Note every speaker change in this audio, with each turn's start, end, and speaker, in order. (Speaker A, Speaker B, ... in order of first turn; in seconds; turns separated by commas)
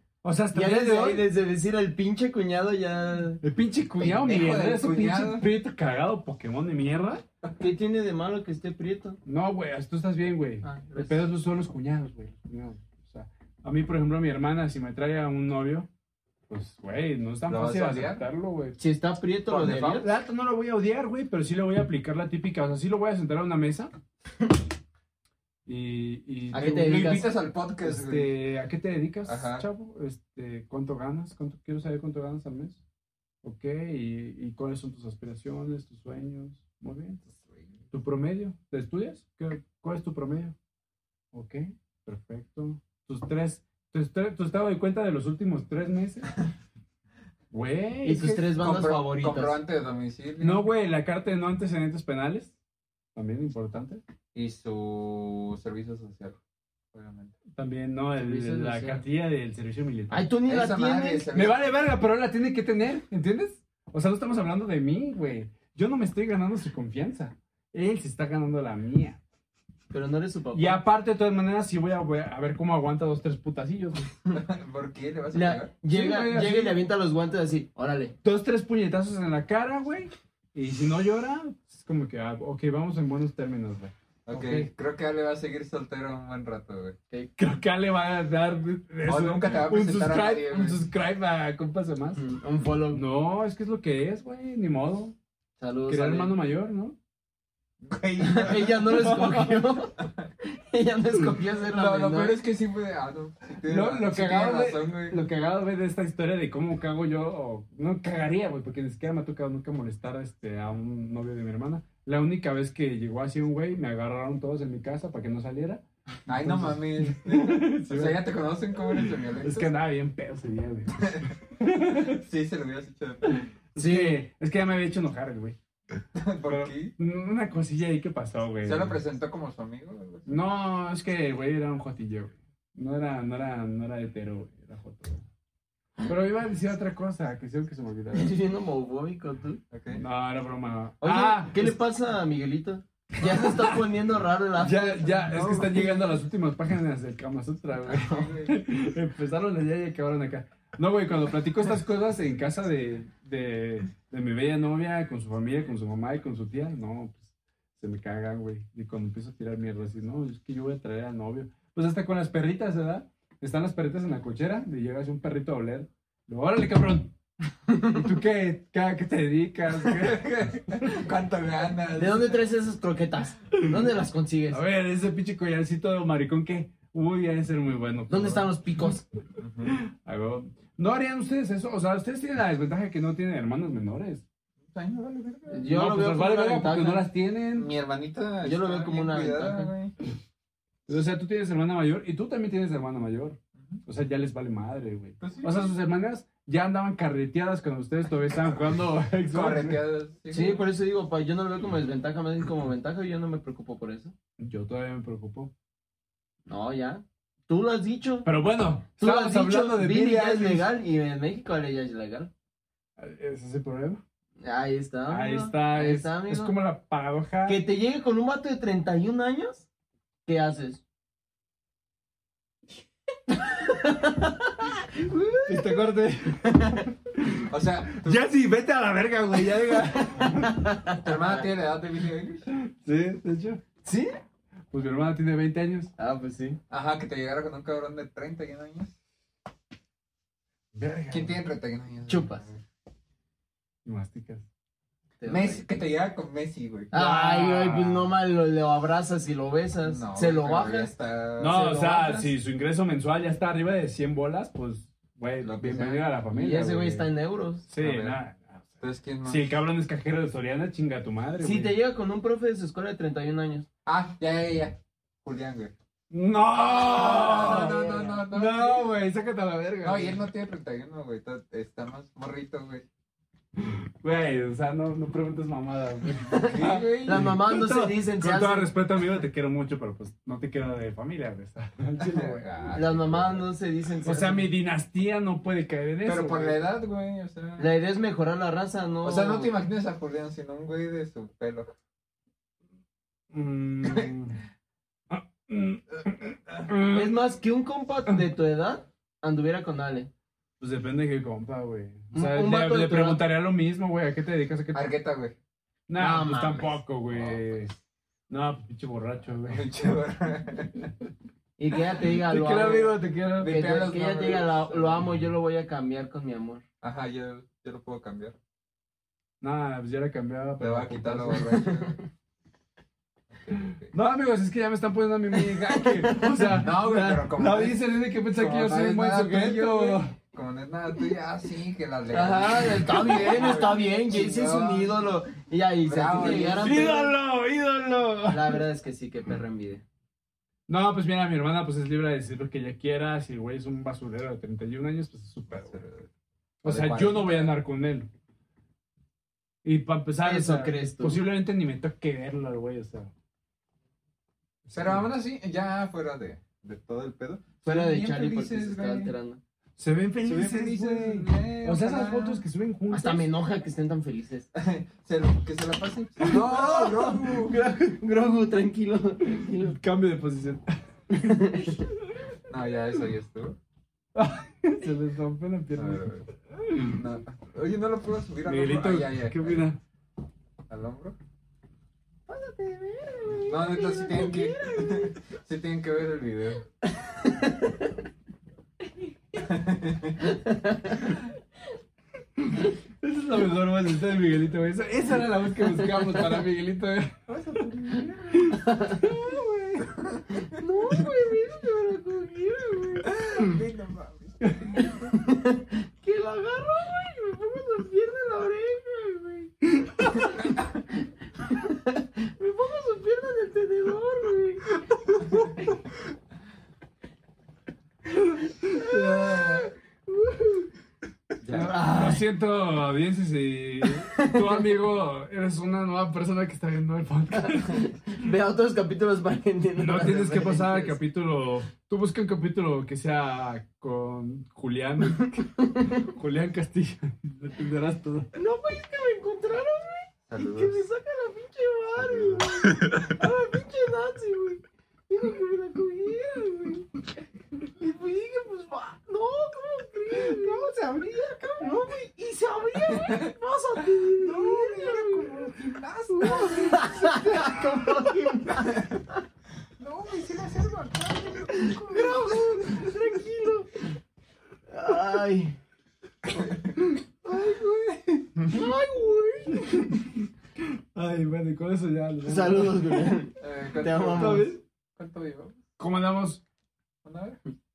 Speaker A: 0.2-1.3, Speaker B: 0.5-3.4, Speaker A: 3.4-7.2, Speaker C: 4.0-5.5, Speaker B: 7.6-9.2, Speaker A: 9.2-15.9, Speaker B: 10.6-11.2, Speaker A: 16.5-18.8, Speaker C: 17.4-18.2, Speaker B: 18.8-20.1, Speaker A: 19.5-23.9, Speaker A: 25.6-27.3, Speaker B: 26.5-27.3, Speaker C: 26.9-28.3, Speaker A: 27.8-32.8, Speaker C: 29.2-29.6, Speaker A: 33.4-37.2, Speaker C: 37.2-37.8, Speaker A: 37.9-40.5, Speaker A: 41.3-46.4, Speaker A: 47.5-48.5, Speaker B: 48.0-49.6, Speaker C: 48.6-50.6, Speaker A: 50.4-52.5, Speaker A: 53.1-54.0, Speaker C: 54.3-56.4, Speaker C: 56.9-57.3, Speaker A: 57.5-60.3, Speaker B: 58.1-59.0, Speaker B: 60.1-61.2, Speaker C: 60.5-61.6, Speaker A: 61.3-69.2, Speaker B: 69.9-70.8, Speaker A: 70.5-74.1, Speaker C: 74.3-75.7, Speaker B: 75.3-78.1, Speaker A: 75.9-76.8, Speaker A: 78.2-84.7, Speaker C: 84.3-87.0, Speaker A: 87.4-92.2, Speaker C: 89.0-90.8, Speaker B: 92.2-93.0, Speaker A: 92.9-95.2, Speaker B: 95.6-96.4, Speaker A: 95.9-97.0, Speaker C: 97.8-99.0, Speaker B: 98.2-102.4, Speaker A: 99.0-99.6, Speaker C: 101.7-105.2, Speaker A: 103.6-118.2, Speaker C: 116.3-119.7, Speaker A: 118.9-122.2, Speaker C: 121.0-121.2, Speaker C: 122.1-123.4, Speaker A: 123.2-125.6, Speaker B: 123.8-124.2, Speaker C: 126.1-126.9, Speaker A: 126.5-129.0, Speaker C: 128.6-130.3, Speaker A: 130.3-135.2, Speaker A: 136.0-138.3, Speaker B: 138.1-139.6, Speaker C: 139.7-140.0, Speaker A: 139.9-141.7, Speaker B: 141.0-146.0, Speaker A: 144.6-167.2, Speaker C: 147.8-148.6, Speaker B: 167.7-168.0, Speaker A: 167.9-171.0, Speaker C: 169.8-172.5, Speaker B: 172.0-174.6, Speaker A: 174.5-178.9, Speaker B: 178.1-179.0, Speaker C: 179.4-179.8, Speaker A: 179.7-184.2, Speaker C: 184.7-185.7, Speaker B: 185.5-187.0, Speaker A: 185.7-187.7, Speaker C: 187.5-189.9, Speaker B: 188.4-189.7, Speaker A: 190.9-199.8, Speaker C: 195.2-195.7, Speaker C: 199.3-200.7, Speaker B: 200.3-204.1, Speaker A: 204.4-205.5, Speaker B: 206.4-208.3, Speaker A: 208.2-210.7, Speaker B: 209.0-212.3, Speaker A: 213.0-214.0, Speaker B: 214.4-216.5, Speaker A: 215.1-217.6, Speaker B: 217.4-219.7, Speaker B: 220.2-220.8, Speaker B: 223.4-225.9, Speaker A: 225.5-230.6, Speaker B: 226.5-226.8, Speaker C: 227.5-228.3, Speaker B: 229.7-231.1, Speaker C: 231.0-232.5, Speaker A: 232.6-233.6, Speaker B: 233.8-234.1, Speaker A: 234.7-235.9, Speaker B: 236.0-236.6, Speaker C: 236.7-238.9, Speaker A: 240.7-241.4, Speaker C: 241.1-242.6, Speaker B: 242.1-242.4, Speaker A: 243.8-244.4, Speaker B: 245.2-245.8, Speaker C: 245.2-246.9, Speaker A: 246.9-248.1, Speaker B: 246.9-252.3, Speaker C: 249.8-251.6, Speaker A: 251.4-257.1, Speaker C: 255.4-256.1, Speaker B: 256.3-257.7, Speaker A: 257.7-258.7, Speaker C: 257.8-258.2, Speaker C: 258.8-259.5, Speaker A: 259.2-261.8, Speaker B: 261.4-263.7, Speaker C: 263.9-265.7, Speaker A: 266.1-270.2, Speaker C: 266.7-268.9, Speaker B: 267.2-268.2, Speaker C: 269.8-272.9, Speaker A: 273.6-282.4, Speaker B: 276.3-278.7, Speaker C: 276.5-277.3, Speaker C: 282.0-283.5, Speaker B: 282.7-284.5, Speaker A: 284.0-286.6, Speaker C: 286.0-287.7, Speaker B: 287.6-289.5, Speaker C: 289.0-291.7, Speaker A: 293.3-294.4, Speaker A: 295.1-297.2, Speaker B: 296.9-300.1, Speaker A: 300.6-304.9, Speaker B: 302.1-303.2, Speaker C: 304.7-305.4, Speaker A: 305.9-307.7, Speaker B: 306.0-306.8, Speaker C: 307.1-307.4, Speaker A: 308.3-309.7, Speaker C: 309.4-310.8, Speaker B: 311.6-316.6, Speaker A: 312.2-313.6, Speaker C: 313.4-315.1, Speaker C: 316.8-318.4, Speaker A: 319.4-321.5, Speaker C: 320.6-322.0, Speaker B: 321.3-322.0, Speaker C: 323.3-323.9, Speaker A: 323.9-330.1, Speaker B: 325.5-326.5, Speaker C: 326.5-335.0, Speaker B: 332.1-337.1, Speaker C: 335.8-336.8, Speaker A: 336.2-338.6, Speaker B: 338.3-339.8, Speaker A: 340.7-345.8, Speaker C: 345.5-346.1, Speaker A: 346.6-348.1, Speaker C: 346.6-347.5, Speaker A: 349.6-353.1, Speaker B: 350.2-351.2, Speaker A: 354.6-355.1, Speaker C: 354.7-359.1, Speaker B: 357.6-359.4, Speaker A: 359.8-363.3, Speaker C: 360.2-362.4, Speaker B: 362.9-364.5, Speaker C: 364.5-367.6, Speaker B: 366.2-369.7, Speaker A: 369.5-371.5, Speaker B: 371.1-371.8, Speaker C: 372.5-373.6, Speaker A: 374.1-377.0, Speaker C: 375.7-376.2, Speaker C: 376.8-379.6, Speaker A: 378.4-379.8, Speaker C: 380.7-381.1, Speaker B: 382.3-385.0, Speaker C: 383.4-386.6, Speaker B: 387.0-387.9, Speaker C: 389.4-390.2, Speaker B: 390.3-391.0, Speaker A: 393.0-397.6, Speaker C: 397.3-398.6, Speaker A: 398.3-399.9, Speaker B: 398.6-399.1, Speaker B: 400.5-403.3, Speaker C: 403.0-405.1, Speaker B: 405.2-410.5, Speaker B: 411.4-414.7, Speaker B: 418.7-420.7, Speaker A: 418.7-419.7, Speaker C: 421.4-421.8, Speaker B: 421.5-422.2, Speaker A: 421.5-428.1, Speaker B: 424.1-424.6, Speaker B: 427.4-431.0, Speaker A: 429.8-438.3, Speaker B: 438.3-446.9, Speaker C: 440.3-440.8, Speaker C: 441.9-442.6, Speaker B: 447.8-455.1, Speaker A: 450.2-451.1, Speaker C: 454.2-457.7, Speaker A: 454.3-458.1, Speaker B: 456.2-458.9, Speaker C: 459.8-462.3, Speaker B: 461.6-463.9, Speaker B: 464.7-465.6, Speaker C: 466.4-466.7, Speaker B: 467.2-469.9, Speaker A: 469.5-470.0, Speaker A: 470.9-473.1, Speaker B: 472.2-474.5, Speaker C: 473.4-475.6, Speaker A: 474.1-474.6, Speaker A: 475.8-476.4, Speaker C: 477.0-477.4